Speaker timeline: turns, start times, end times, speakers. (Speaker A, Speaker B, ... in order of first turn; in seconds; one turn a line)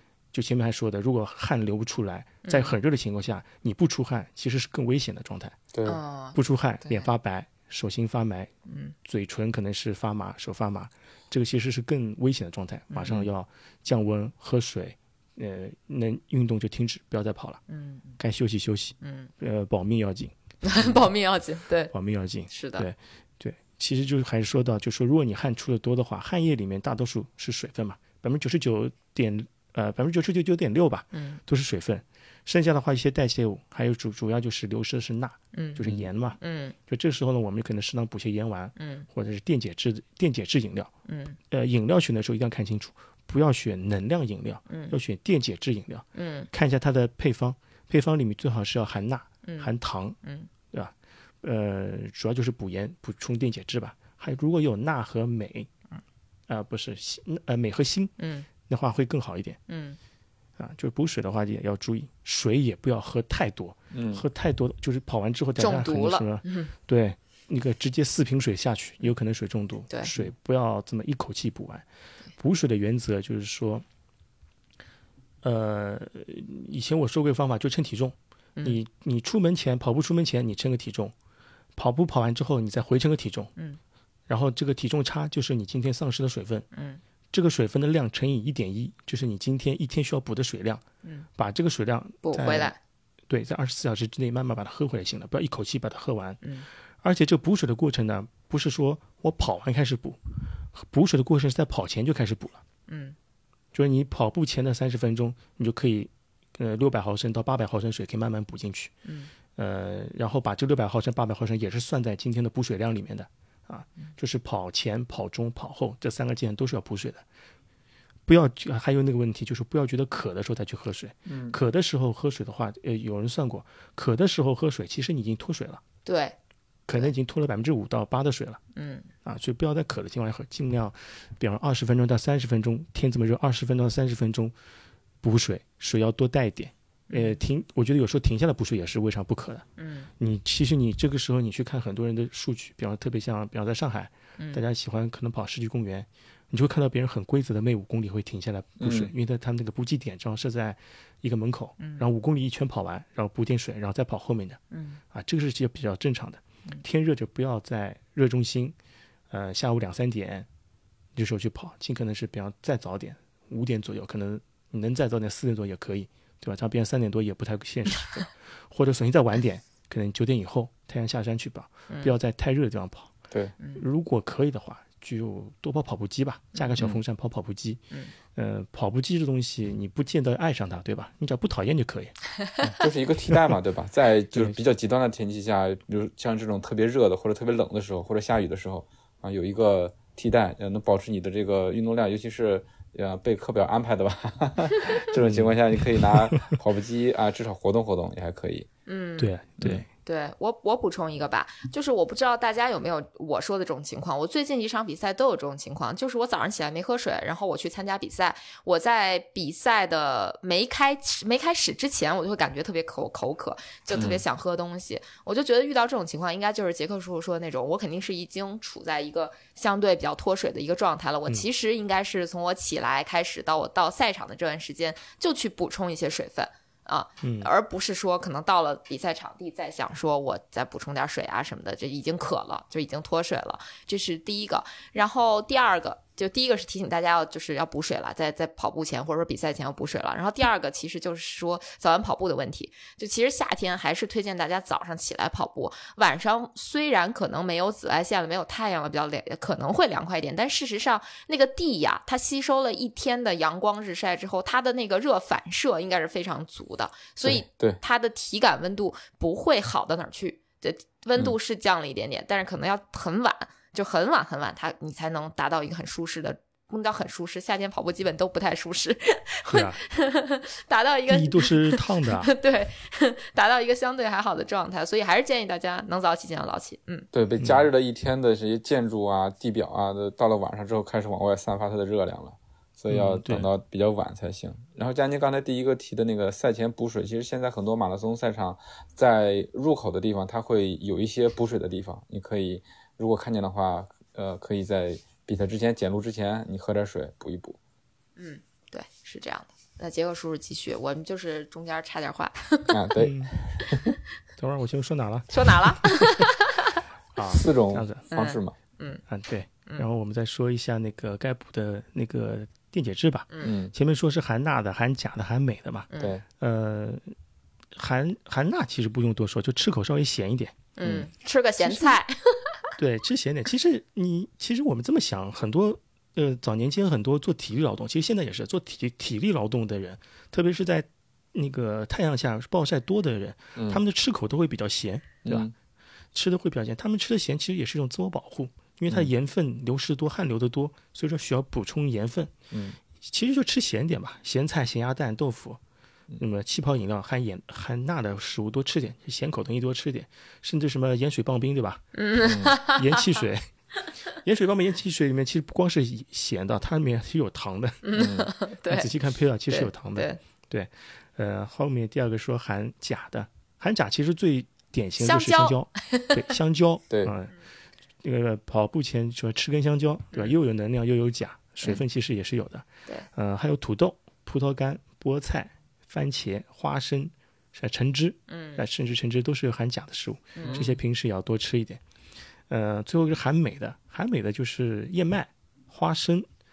Speaker A: 0.3-5.6
Speaker B: 2.4-2.8
Speaker C: 5.7-6.0
Speaker B: 5.9-7.1
Speaker A: 6.3-8.5
Speaker B: 8.7-8.9
Speaker A: 9.0-17.6
Speaker B: 17.7-18.2
Speaker A: 18.2-20.3
Speaker B: 19.0-19.3
Speaker B: 20.6-21.9
Speaker A: 21.9-40.9
Speaker B: 22.5-22.9
Speaker B: 31.1-31.4
Speaker B: 35.5-35.9
Speaker B: 36.4-36.8
Speaker B: 38.8-39.1
Speaker B: 41.1-41.4
Speaker A: 41.5-50.2
Speaker B: 44.7-45.0
Speaker B: 46.1-46.5
Speaker B: 49.4-49.7
Speaker B: 50.2-50.5
Speaker A: 50.7-55.7
Speaker A: 56.5-58.1
Speaker B: 58.2-58.5
Speaker A: 58.7-59.6
Speaker B: 59.7-60.0
Speaker A: 60.6-71.8
Speaker C: 63.9-64.2
Speaker B: 65.6-66.7
Speaker A: 72.4-73.8
Speaker A: 75.4-81.1
Speaker A: 81.8-83.5
Speaker A: 84.3-86.7
Speaker B: 86.7-87.0
Speaker A: 87.3-90.8
Speaker A: 91.4-92.7
Speaker B: 92.2-92.8
Speaker A: 93.3-96.4
Speaker B: 96.4-96.7
Speaker A: 97.0-100.2
Speaker A: 100.7-102.6
Speaker B: 102.9-103.2
Speaker A: 103.7-108.9
Speaker B: 109.0-109.3
Speaker A: 109.6-117.2
Speaker A: 118.2-125.8
Speaker C: 121.3-121.6
Speaker B: 126.0-126.4
Speaker A: 126.9-128.6
Speaker B: 128.8-129.1
Speaker A: 129.2-134.5
Speaker A: 135.2-139.6
Speaker B: 137.1-137.4
Speaker B: 139.8-140.1
Speaker A: 140.2-154.6
Speaker B: 144.4-144.6
Speaker C: 148.8-149.1
Speaker B: 151.8-152.1
Speaker B: 154.7-155.0
Speaker A: 155.1-158.8
Speaker A: 159.3-160.5
Speaker A: 161.1-173.1
Speaker B: 171.9-172.1
Speaker A: 173.8-177.8
Speaker A: 178.3-182.2
Speaker C: 182.6-198.7
Speaker A: 184.3-184.6
Speaker A: 195.2-196.3
Speaker B: 198.9-199.3
Speaker A: 199.2-199.9
Speaker B: 200.0-277.1
Speaker C: 213.9-214.2
Speaker A: 227.2-227.5
Speaker C: 257.2-257.8
Speaker A: 269.5-269.8
Speaker A: 271.1-272.3
Speaker C: 277.1-297.6
Speaker A: 277.4-277.7
Speaker A: 282.9-283.5
Speaker B: 298.2-302.8
Speaker C: 302.7-303.9
Speaker A: 303.0-303.3
Speaker A: 304.4-306.2
Speaker B: 305.3-306.8
Speaker A: 307.1-308.1
Speaker C: 307.3-308.5
Speaker B: 308.1-309.0
Speaker A: 309.1-317.1
Speaker C: 313.4-313.7
Speaker B: 315.9-316.2
Speaker A: 317.7-320.6
Speaker B: 320.8-322.6
Speaker A: 321.6-321.9
Speaker A: 322.8-335.5
Speaker C: 333.6-333.8
Speaker C: 335.2-335.5
Speaker A: 336.1-342.3
Speaker C: 342.5-342.8
Speaker A: 343.0-345.6
Speaker A: 346.2-351.9
Speaker B: 351.9-353.2
Speaker C: 352.2-352.5
Speaker A: 352.6-353.5
Speaker A: 354.1-358.0
Speaker B: 357.8-358.9
Speaker C: 357.9-358.3
Speaker A: 358.6-367.3
Speaker B: 359.5-360.2
Speaker B: 365.0-366.2
Speaker A: 368.0-381.8
Speaker B: 378.3-378.6
Speaker B: 380.4-380.6
Speaker C: 380.4-380.7
Speaker A: 382.5-386.3